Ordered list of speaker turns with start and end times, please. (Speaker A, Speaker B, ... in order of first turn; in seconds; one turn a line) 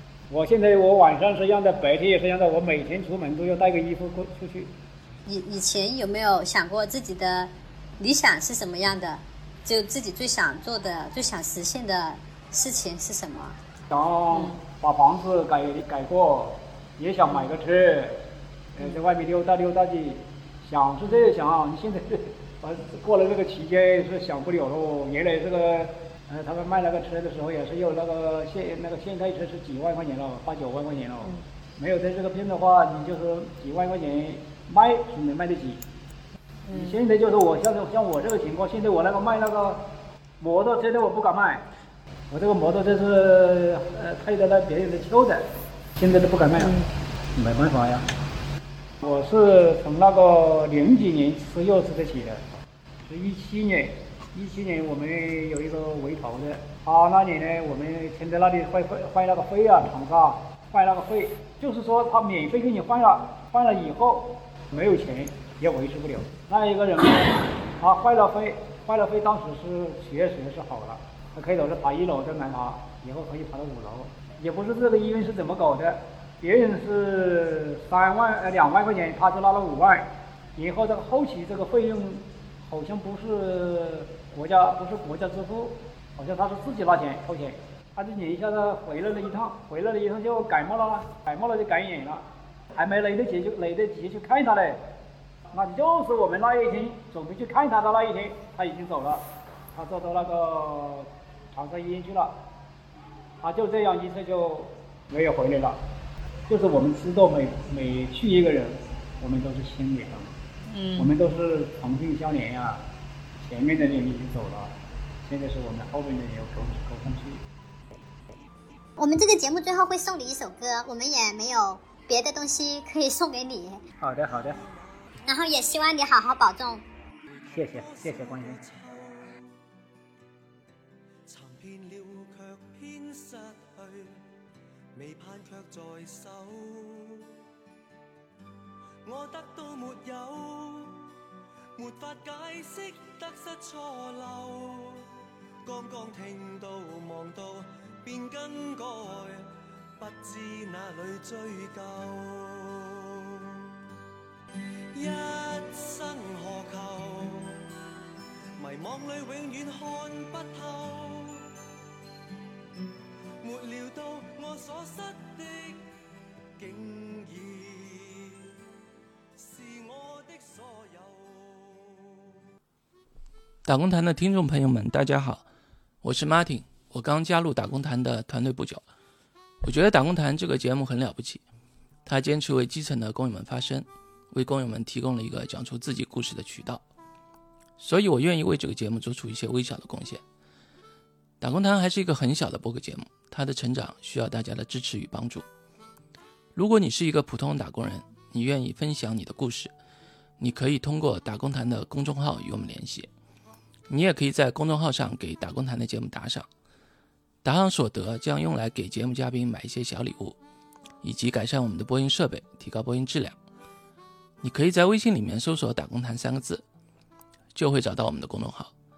Speaker A: 0.3-4.7
Speaker B: 5.2-13.6
Speaker A: 13.9-35.8
Speaker B: 14.3-14.6
Speaker B: 36.6-37.0
Speaker A: 36.7-39.9
Speaker A: 40.4-41.6
Speaker A: 42.3-46.8
Speaker B: 46.6-46.9
Speaker A: 47.3-48.1
Speaker A: 49.0-94.8
Speaker A: 95.5-102.3
Speaker A: 103.4-105.8
Speaker A: 106.5-110.3
Speaker B: 110.7-111.1
Speaker A: 111.0-112.8
Speaker A: 113.4-117.4
Speaker C: 119.0-123.8
Speaker A: 124.0-124.6
Speaker D: 124.4-125.0
Speaker C: 125.3-126.8
Speaker D: 127.3-129.5
Speaker A: 127.5-128.6
Speaker D: 131.3-134.2
Speaker D: 134.9-137.3
Speaker D: 139.1-141.1
Speaker D: 141.8-145.1
Speaker D: 145.6-153.7
Speaker D: 154.9-157.6
Speaker D: 158.6-161.4
Speaker D: 163.4-165.8
Speaker D: 166.6-168.6
Speaker D: 169.4-172.4
Speaker E: 173.6-175.4
Speaker E: 176.0-178.8
Speaker E: 179.6-181.4
Speaker E: 182.1-186.8
Speaker E: 187.8-190.2
Speaker E: 191.4-195.4
Speaker E: 196.6-199.7
Speaker E: 200.4-203.1
Speaker E: 203.9-206.4
Speaker E: 207.4-210.4
Speaker E: 211.0-213.4
Speaker E: 214.4-216.6
Speaker E: 217.5-218.7